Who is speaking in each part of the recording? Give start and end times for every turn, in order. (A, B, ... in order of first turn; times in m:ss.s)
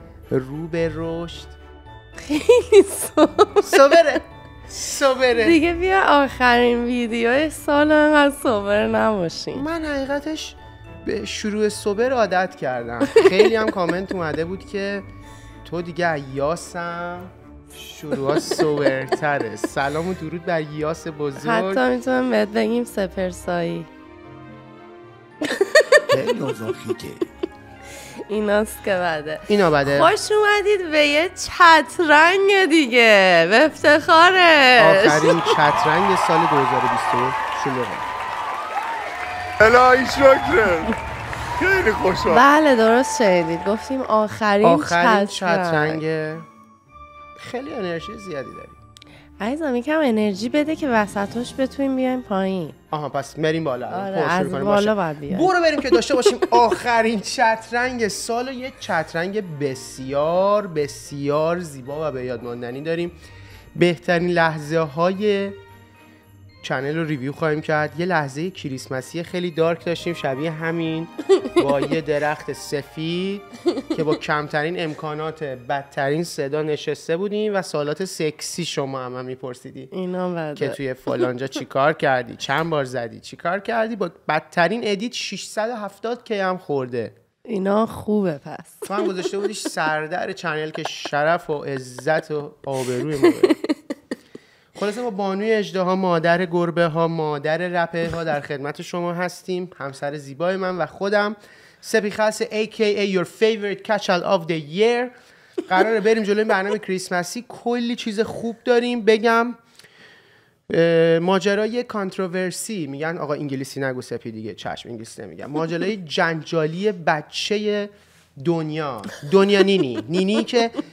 0:00.3-0:01.6 A
0:02.2-0:04.2 B
0:03.6-0:05.6 A
0:05.3-0:09.6 B
0:09.5-0:15.1 A
0:15.6-0:21.8 A
0:18.4-0:18.7 B
0:21.4-0:23.9 B
0:25.4-0:26.5 B
0:26.1-0:27.2 A
0:28.3-0:35.6 B
0:29.5-0:30.1 A
0:34.8-0:38.1 A
0:39.6-0:41.0 C
0:41.6-0:42.4 C
0:42.3-0:46.0 B
0:44.6-0:46.5 A
0:47.4-0:48.8 A
0:49.4-0:52.8 B
0:52.9-1:03.2 A
0:53.9-0:55.5 B
0:56.1-0:56.5 B
1:03.8-1:05.6 A
1:06.6-1:19.9 A
1:19.9-1:21.2 B
1:20.6-1:27.1 A
1:27.4-1:29.2 B
1:28.9-1:33.6 A
1:33.4-1:33.8 B
1:34.7-1:45.1 A
1:45.6-1:49.6 A
1:50.7-2:00.8 A